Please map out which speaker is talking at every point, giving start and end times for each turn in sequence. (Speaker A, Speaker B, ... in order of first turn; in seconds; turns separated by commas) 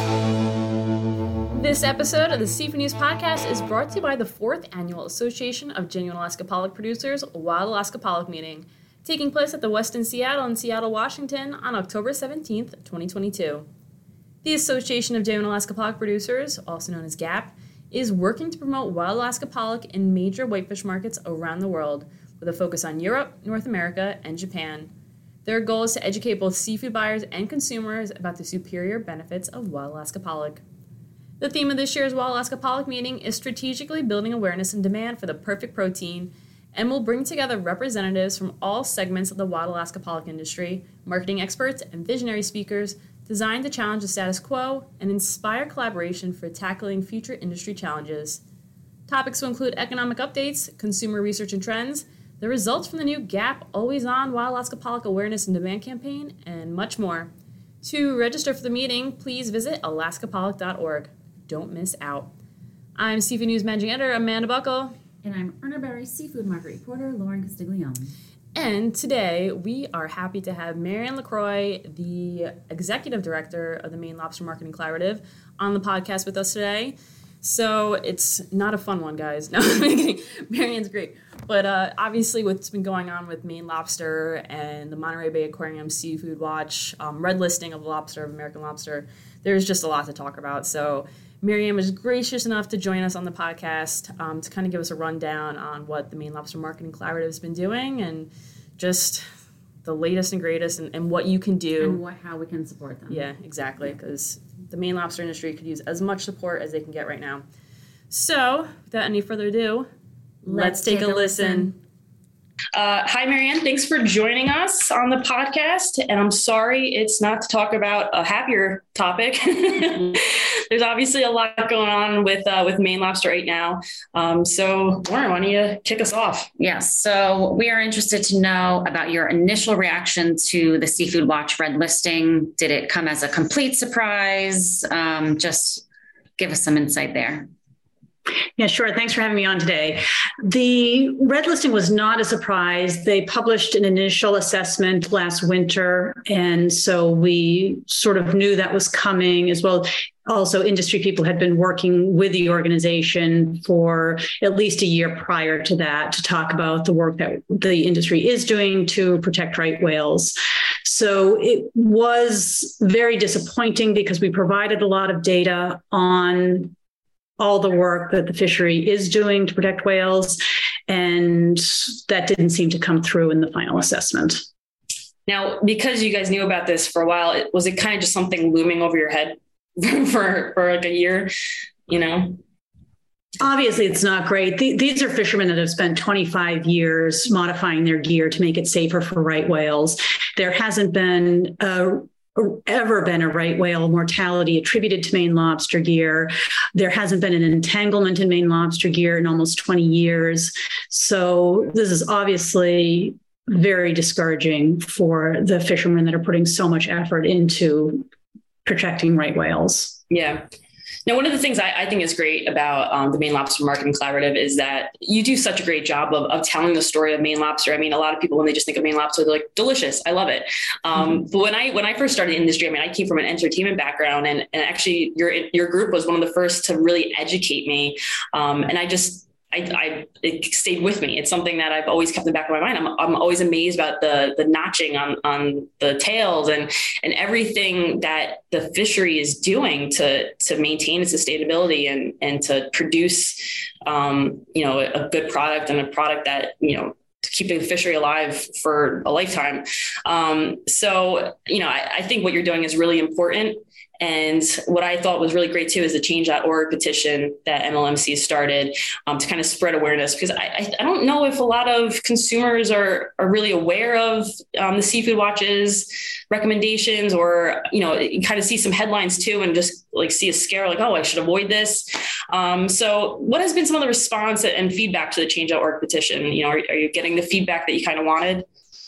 Speaker A: 1.5-13.7, Speaker A: 14.4-24.9, Speaker A: 25.4-30.6, Speaker A: 31.4-48.4, Speaker A: 49.1-57.3, Speaker A: 57.8-62.3, Speaker A: 63.0-64.9, Speaker B: 65.2-68.1, Speaker A: 68.5-99.2, Speaker A: 99.8-102.0, Speaker B: 101.8-103.3, Speaker A: 103.1-107.4, Speaker A: 108.1-109.9, Speaker A: 110.4-111.8, Speaker B: 110.5-111.7, Speaker C: 112.8-126.5, Speaker B: 126.6-135.8, Speaker B: 136.4-137.5, Speaker D: 138.6-166.7, Speaker D: 167.4-174.4, Speaker C: 175.3-181.3, Speaker C: 181.9-182.4, Speaker D: 183.4-208.1, Speaker D: 208.7-210.0, Speaker C: 210.1-210.4, Speaker C: 211.1-278.5